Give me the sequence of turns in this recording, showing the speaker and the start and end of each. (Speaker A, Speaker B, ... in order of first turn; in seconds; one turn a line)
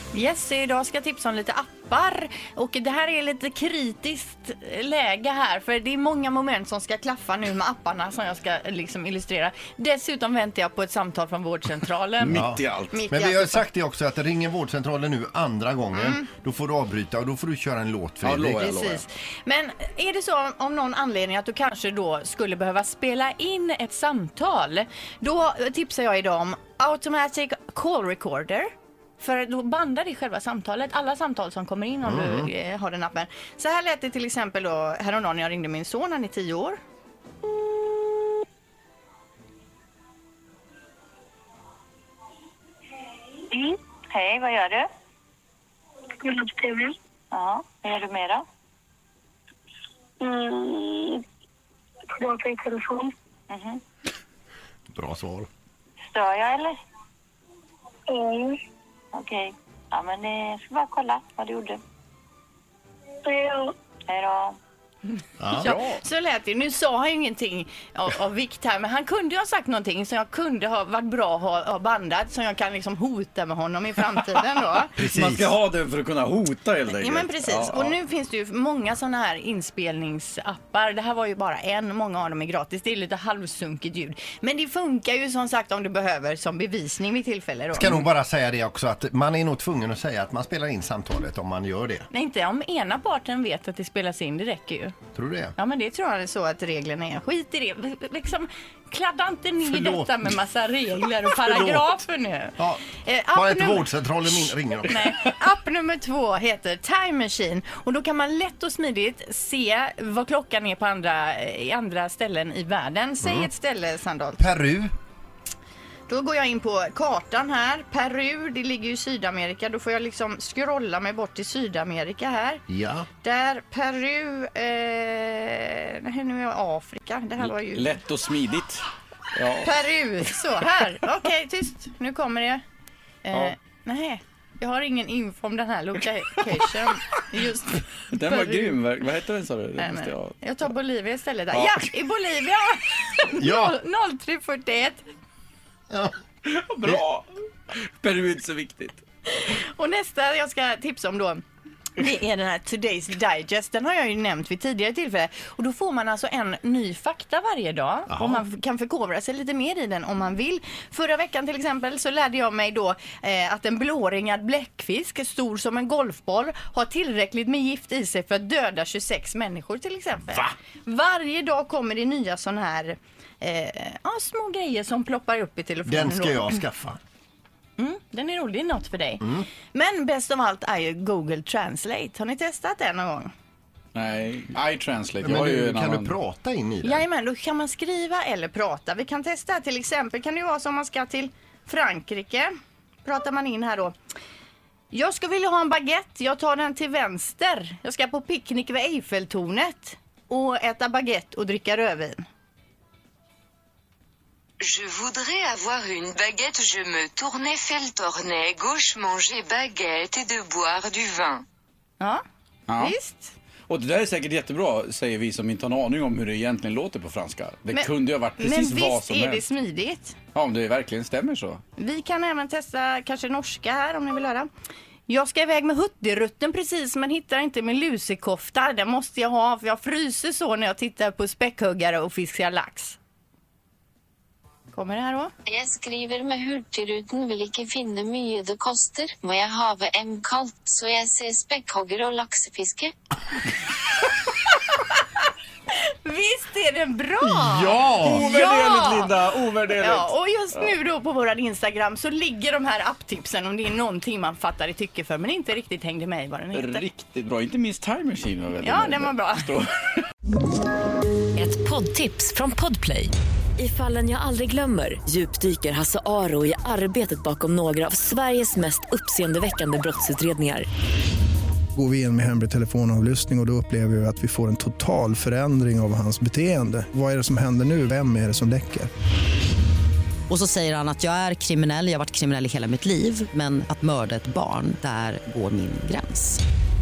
Speaker A: 0.1-13.7
Speaker B: 12.2-13.0
Speaker C: 12.3-12.6
Speaker C: 13.1-18.8
Speaker A: 15.9-16.3
Speaker B: 18.2-19.0
Speaker A: 18.6-36.8
Speaker C: 32.0-32.5
Speaker D: 43.5-44.9
Speaker E: 46.2-46.9
Speaker D: 47.3-48.5
Speaker E: 50.2-51.2
Speaker E: 52.1-53.1
Speaker D: 53.5-53.8
Speaker C: 54.9-55.5
Speaker D: 56.1-56.8
Speaker E: 58.1-58.6
Speaker D: 59.1-61.8
Speaker E: 63.2-63.7
Speaker D: 64.1-64.6
Speaker C: 65.4-65.8
Speaker A: 65.5-74.9
Speaker C: 75.0-75.5
Speaker B: 75.0-78.0
Speaker A: 76.9-88.1
Speaker C: 87.7-92.1
Speaker A: 92.1-95.0
Speaker C: 95.2-95.5
Speaker A: 95.6-114.5
Speaker C: 99.6-100.3
Speaker C: 101.4-101.9
Speaker C: 102.6-105.1
Speaker C: 113.2-113.5
Speaker C: 114.4-114.9
Speaker A: 116.1-122.6
Speaker C: 122.7-123.1
Speaker A: 123.2-128.0
Speaker B: 127.4-129.7
Speaker A: 129.6-132.6
Speaker A: 133.2-138.8
Speaker B: 138.1-140.4
Speaker A: 139.8-145.1
Speaker B: 141.5-141.9
Speaker C: 143.4-143.8
Speaker B: 146.4-149.0
Speaker A: 149.3-151.4
Speaker A: 152.0-176.6
Speaker C: 158.1-158.4
Speaker C: 175.9-177.0
Speaker A: 177.8-183.3
Speaker B: 183.9-186.2
Speaker C: 185.2-187.1
Speaker A: 186.8-192.5
Speaker A: 193.1-193.9
Speaker A: 194.9-202.2
Speaker F: 204.6-211.4
Speaker B: 212.7-212.9
Speaker A: 212.8-213.3
Speaker B: 213.7-219.4
Speaker A: 217.7-220.2
Speaker B: 220.3-221.6
Speaker A: 221.8-224.5
Speaker A: 225.1-233.0
Speaker A: 234.7-235.3
Speaker G: 235.5-242.9
Speaker A: 245.9-249.2
Speaker C: 247.3-248.2
Speaker B: 247.4-250.7
Speaker A: 249.7-256.9
Speaker B: 256.5-260.1
Speaker A: 258.6-259.5
Speaker H: 261.4-270.7
Speaker I: 271.7-278.9
Speaker J: 280.3-286.4